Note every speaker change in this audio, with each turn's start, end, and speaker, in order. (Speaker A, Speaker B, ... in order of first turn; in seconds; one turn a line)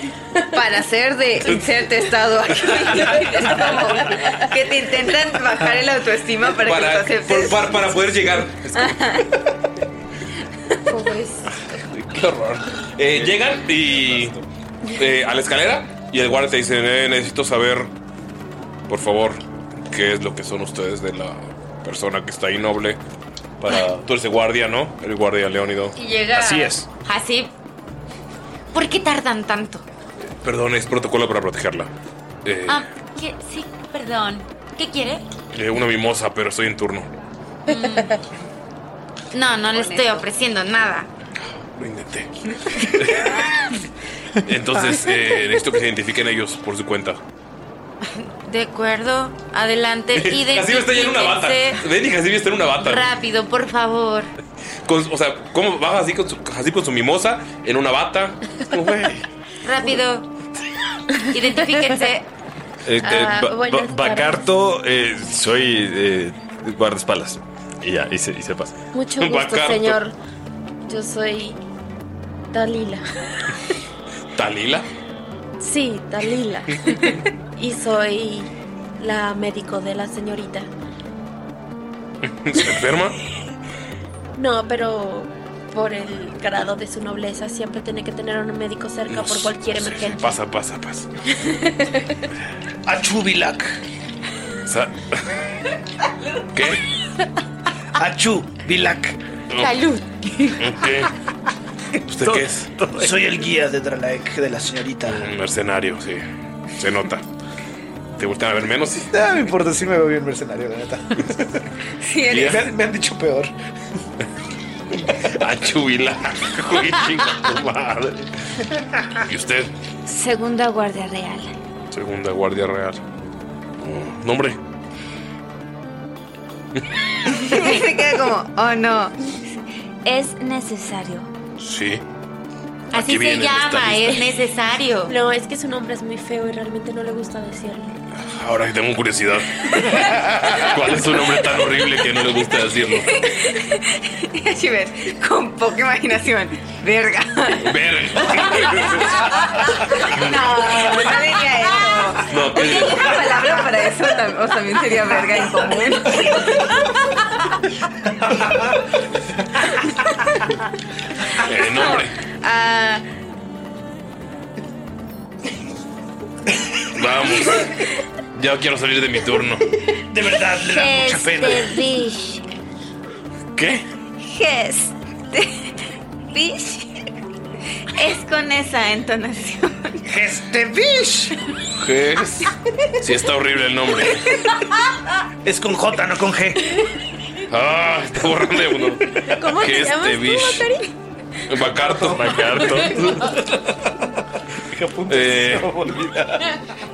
Speaker A: 0.3-8.0
Speaker B: 3.2-3.6
Speaker B: 6.6-9.1
Speaker A: 8.7-9.3
Speaker C: 10.9-11.5
Speaker B: 11.7-14.4
Speaker B: 14.9-17.9
Speaker B: 18.9-23.0
Speaker B: 23.6-26.7
Speaker D: 26.0-27.5
Speaker E: 26.4-26.8
Speaker D: 28.7-29.8
Speaker B: 30.4-31.9
Speaker B: 32.4-32.8
Speaker D: 32.7-35.2
Speaker B: 35.5-37.1
Speaker D: 37.6-38.1
Speaker D: 39.3-41.1
Speaker A: 39.7-40.2
Speaker B: 41.6-43.3
Speaker B: 44.4-47.2
Speaker D: 48.0-51.8
Speaker B: 50.1-53.1
Speaker D: 52.8-54.3
Speaker B: 54.9-59.2
Speaker D: 59.6-60.3
Speaker D: 61.3-62.3
Speaker F: 62.8-68.8
Speaker C: 63.0-64.4
Speaker C: 68.9-70.2
Speaker B: 69.2-70.0
Speaker C: 70.9-71.6
Speaker C: 72.5-73.0
Speaker B: 74.3-74.9
Speaker C: 75.6-80.7
Speaker B: 82.4-83.2
Speaker C: 84.3-90.3
Speaker B: 89.1-91.1
Speaker E: 92.8-93.8
Speaker B: 94.7-95.2
Speaker B: 96.5-96.8
Speaker E: 98.0-99.2
Speaker B: 99.5-99.8
Speaker D: 99.5-100.7
Speaker B: 100.6-101.1
Speaker B: 102.1-102.9
Speaker E: 102.9-105.3
Speaker B: 105.1-106.2
Speaker B: 106.8-107.2
Speaker B: 108.2-109.1
Speaker G: 109.1-111.3
Speaker A: 112.0-112.8
Speaker B: 112.3-112.7
Speaker G: 112.5-113.5
Speaker B: 115.0-118.3
Speaker B: 119.1-119.7
Speaker H: 120.0-121.5
Speaker B: 121.9-123.0
Speaker B: 123.8-124.6
Speaker A: 127.3-129.1
Speaker H: 130.0-131.3
Speaker B: 131.6-132.0
Speaker B: 132.9-134.3
Speaker D: 132.9-135.1
Speaker C: 135.1-137.9
Speaker B: 138.1-143.1
Speaker A: 143.0-147.7
Speaker B: 147.6-149.3
Speaker A: 148.4-156.8
Speaker B: 150.1-150.3
Speaker B: 152.2-153.5
Speaker B: 161.4-162.1
Speaker A: 161.5-163.0
Speaker B: 166.9-167.7
Speaker B: 168.3-169.6
Speaker E: 170.1-171.7
Speaker H: 170.6-172.4
Speaker B: 173.6-173.8
Speaker H: 174.2-174.9
Speaker H: 176.3-176.8
Speaker H: 177.9-180.0
Speaker E: 180.1-181.3
Speaker B: 181.8-184.3
Speaker E: 185.4-186.6
Speaker B: 187.5-190.7
Speaker C: 189.2-190.9
Speaker B: 191.5-193.4
Speaker G: 191.7-192.2
Speaker F: 192.0-193.2
Speaker G: 194.7-196.4
Speaker B: 195.1-195.9